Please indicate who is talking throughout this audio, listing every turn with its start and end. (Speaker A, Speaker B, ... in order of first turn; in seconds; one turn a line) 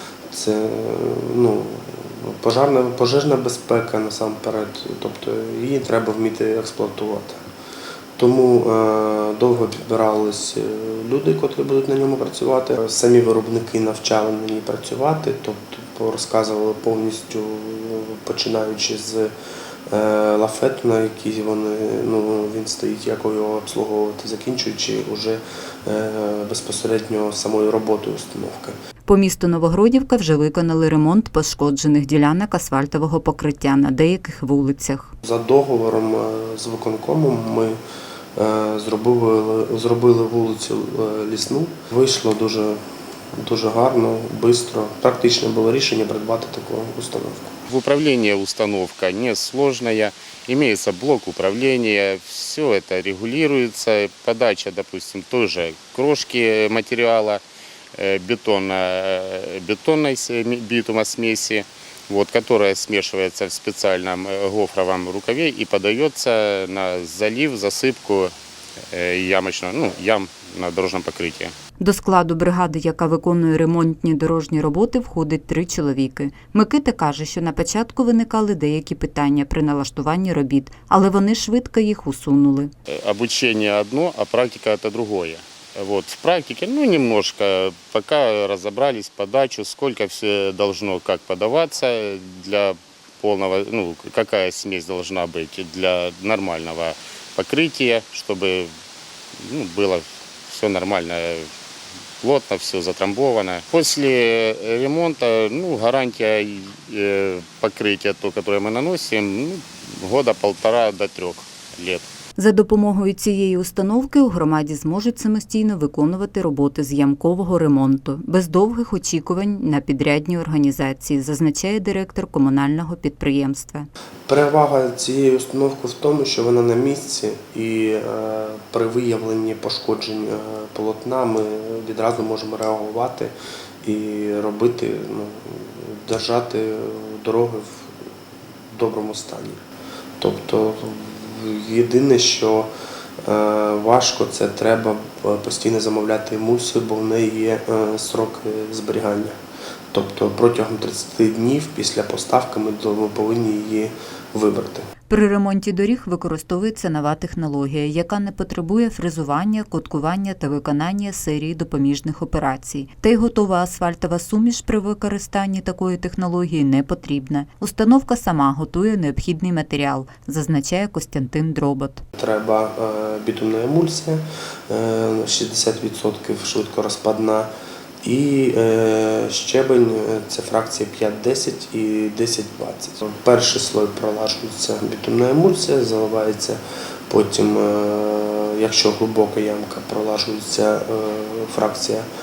Speaker A: 0.3-7.4
Speaker A: 8.2-19.3
Speaker A: 19.9-28.7
Speaker B: 29.1-35.1
Speaker A: 35.2-37.8
Speaker A: 38.4-42.8
Speaker A: 43.4-47.5
Speaker C: 47.7-57.4
Speaker C: 57.9-68.3
Speaker C: 68.9-71.5
Speaker B: 71.8-82.7
Speaker C: 82.9-98.7
Speaker C: 99.4-101.5
Speaker C: 102.2-112.1
Speaker B: 112.4-123.9
Speaker A: 124.3-137.9
Speaker A: 138.7-139.6
Speaker A: 140.2-142.7
Speaker A: 143.2-149.3
Speaker A: 149.9-154.8
Speaker B: 155.1-172.0
Speaker A: 172.1-177.5
Speaker A: 178.0-192.1